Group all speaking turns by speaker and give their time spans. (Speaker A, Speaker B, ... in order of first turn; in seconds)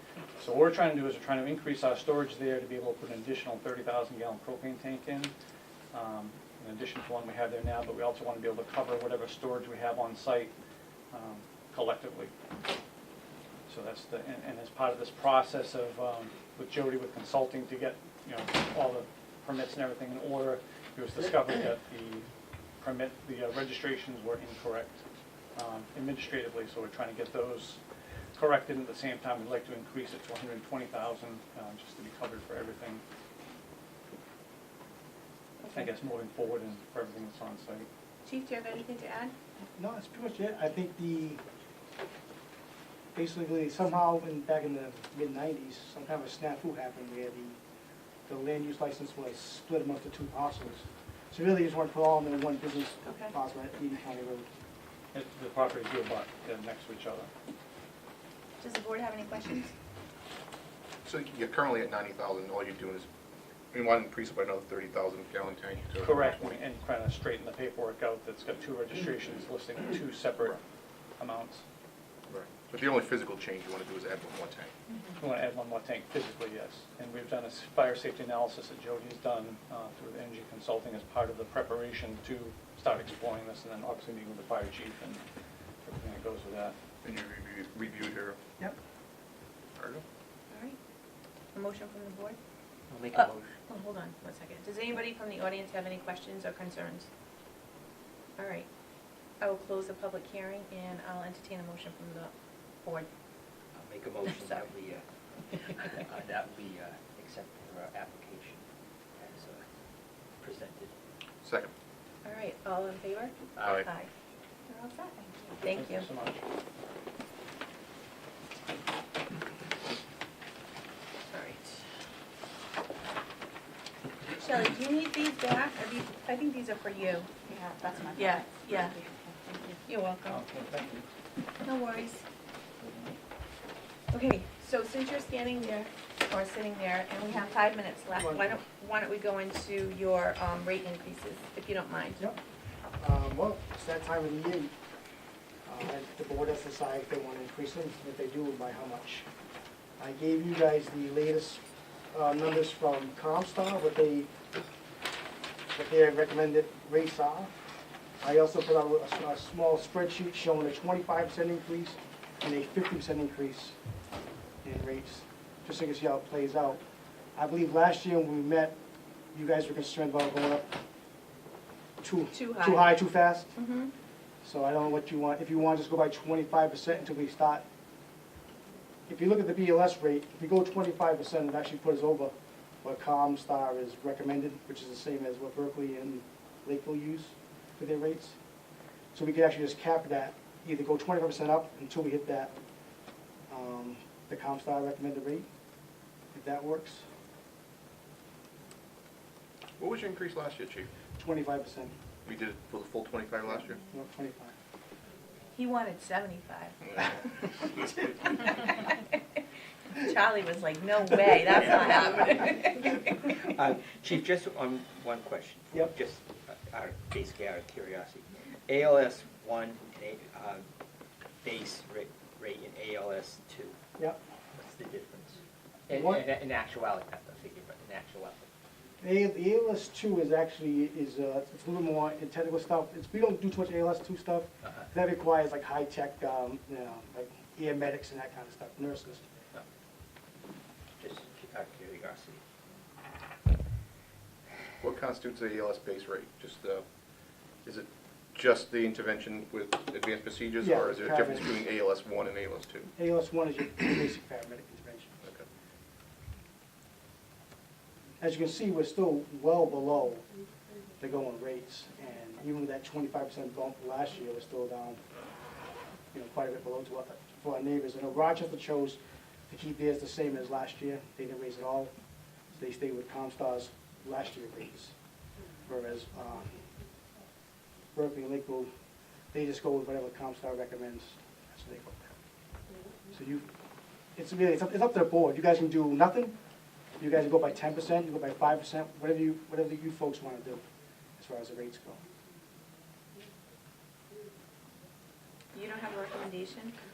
Speaker A: 0.4-5.3, 5.9-10.5, 11.1-12.3, 13.7-22.3, 22.8-25.0, 25.5-27.8, 28.3-33.0, 35.7-37.9, 55.1-57.3, 66.0-70.6, 71.2-71.6, 75.2-85.2, 85.8-86.8, 115.7-116.4, 130.2-131.1, 132.8-133.1
Speaker B: 35.6-35.9, 38.2-39.3, 53.0-53.3, 58.6-59.7, 90.5-90.8, 91.5-92.4, 93.1-97.1, 98.4-98.7, 99.4-102.3, 112.2-114.1, 114.7-116.1, 121.3-121.8, 124.3-127.3, 128.1-128.9, 129.8-130.4, 131.6-132.2, 134.1-142.2, 172.3-173.0, 173.5-173.9, 205.5-209.0, 209.9-213.1, 295.5-296.8
Speaker C: 39.8-41.4, 43.1-47.6, 48.3-54.5, 138.1-138.5, 143.0-144.7, 145.6-149.3, 150.0-154.3, 155.7-157.5, 158.2-163.8, 164.6-166.8, 167.3-168.8, 169.3-170.7, 172.0-173.5, 174.4-177.7, 179.1-188.4, 189.1-192.6, 193.5-195.5, 196.3-197.0, 201.2-201.9, 203.8-204.6, 225.9-226.2, 229.0-239.3, 250.6-251.5, 252.9-255.2, 258.2-260.3, 261.0-265.0, 266.1-271.9, 272.5-274.9, 275.7-276.6, 277.9-278.7, 279.3-282.1, 283.1-283.5, 284.1-286.4, 287.0-290.6, 291.2-292.0
Speaker D: 61.0-63.1, 63.7-66.3, 72.3-74.7, 87.0-88.4, 89.8-90.0, 111.4-111.7, 199.8-200.9, 202.2-203.8, 244.8-246.8, 247.6-252.9
Speaker E: 92.9-93.4, 103.7-108.6, 109.2-109.6, 110.4-110.9, 113.5-113.9, 213.3-220.7, 221.4-223.8, 224.5-228.5, 241.0-242.4
Speaker F: 127.4-129.8